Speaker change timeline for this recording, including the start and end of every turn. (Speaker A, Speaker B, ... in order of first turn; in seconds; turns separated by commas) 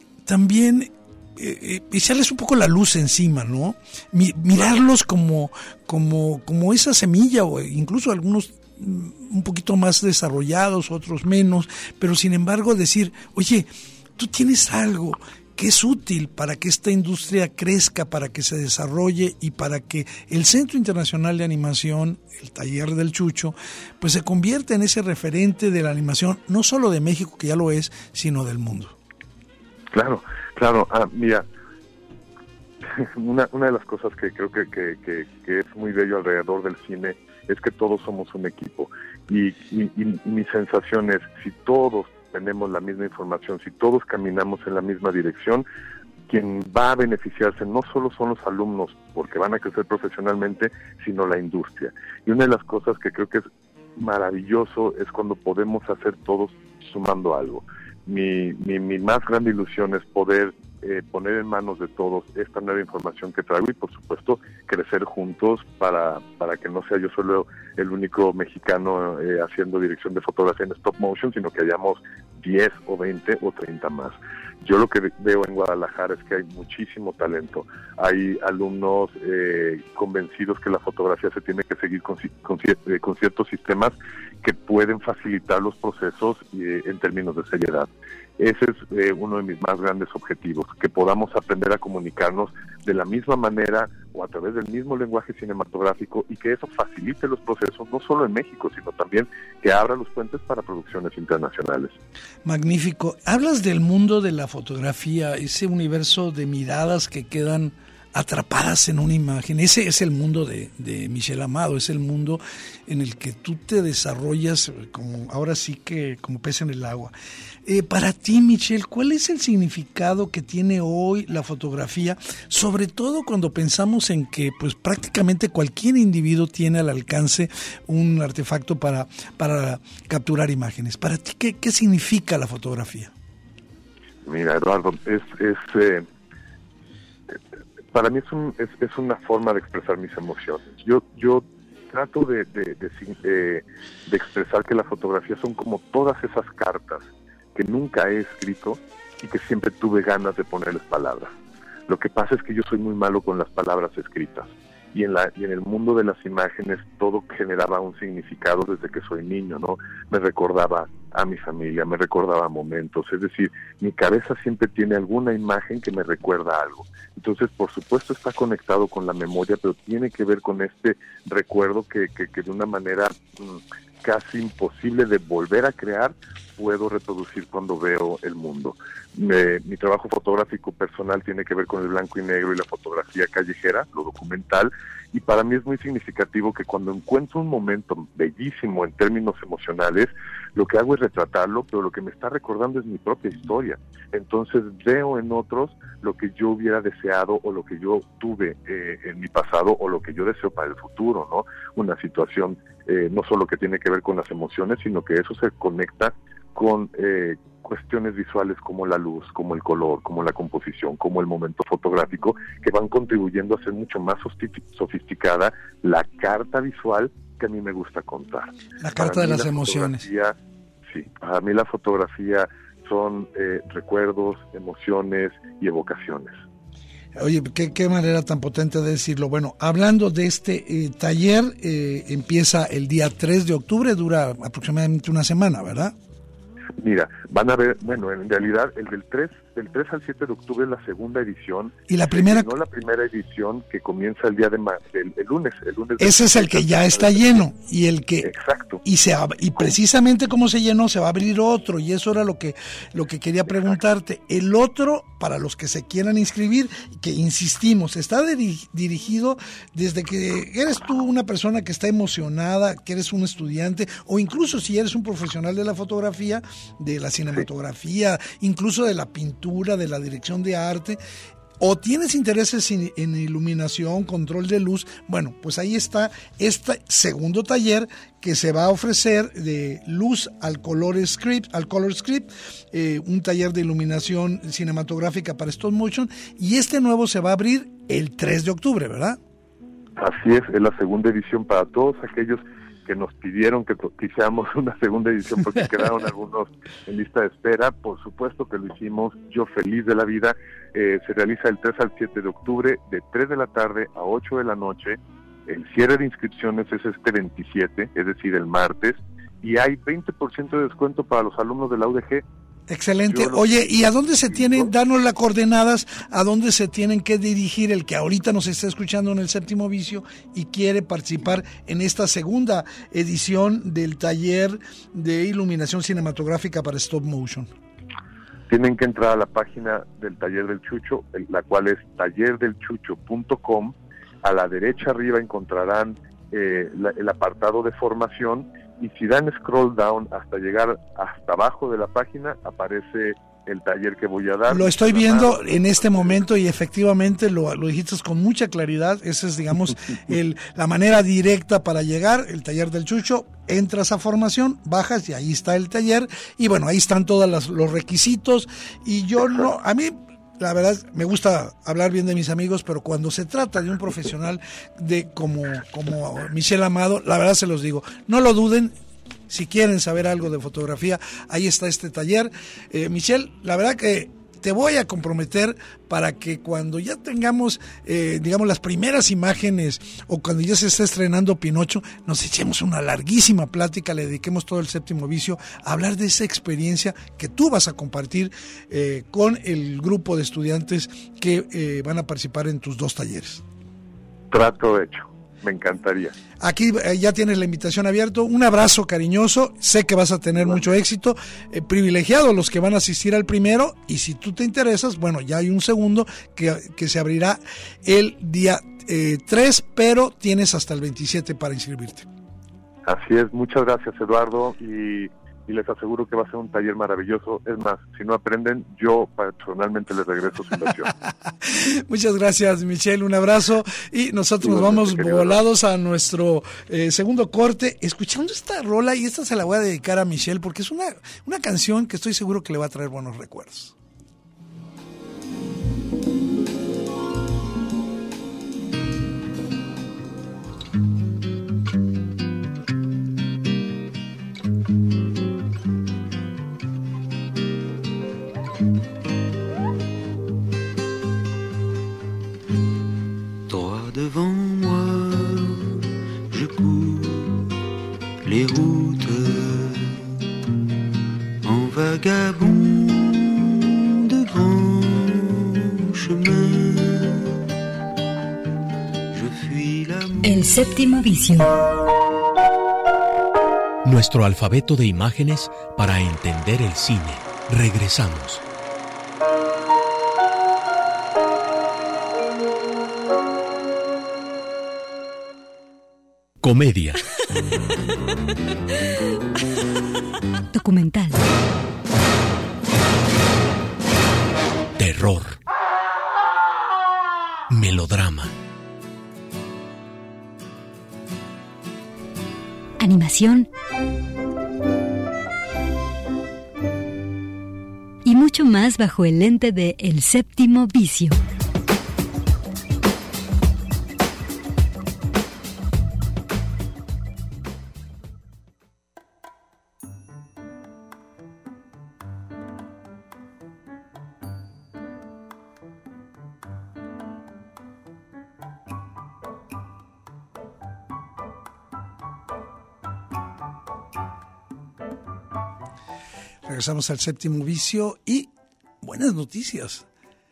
Speaker A: 0.2-28.9, Speaker B: 29.9-31.4, Speaker B: 32.9-45.6, Speaker B: 46.3-101.9, Speaker A: 102.4-117.1, Speaker A: 117.6-133.1, Speaker B: 134.2-136.1, Speaker B: 137.9-151.3, Speaker B: 151.9-220.3, Speaker A: 218.8-220.1, Speaker B: 220.9-226.3, Speaker A: 227.1-235.9, Speaker B: 236.8-247.4, Speaker A: 241.9-242.5, Speaker A: 246.0-248.3, Speaker B: 248.2-248.8, Speaker A: 248.8-271.0, Speaker A: 271.6-289.2, Speaker B: 290.0-312.2, Speaker A: 312.7-327.5, Speaker B: 313.1-314.7, Speaker B: 328.5-346.0, Speaker A: 344.5-368.7, Speaker A: 369.3-393.4, Speaker B: 394.3-396.1, Speaker A: 396.4-412.1, Speaker B: 412.9-420.9, Speaker A: 421.4-433.7, Speaker B: 424.4-425.4, Speaker C: 453.5-455.8, Speaker C: 456.3-457.5, Speaker C: 458.2-460.0, Speaker C: 461.4-467.3, Speaker C: 469.1-470.4, Speaker D: 470.2-471.5, Speaker E: 473.8-478.4, Speaker E: 486.4-487.0, Speaker D: 490.5-491.2, Speaker E: 494.8-495.4, Speaker E: 497.5-498.3, Speaker D: 502.8-503.5, Speaker D: 508.0-511.2, Speaker A: 536.4-539.9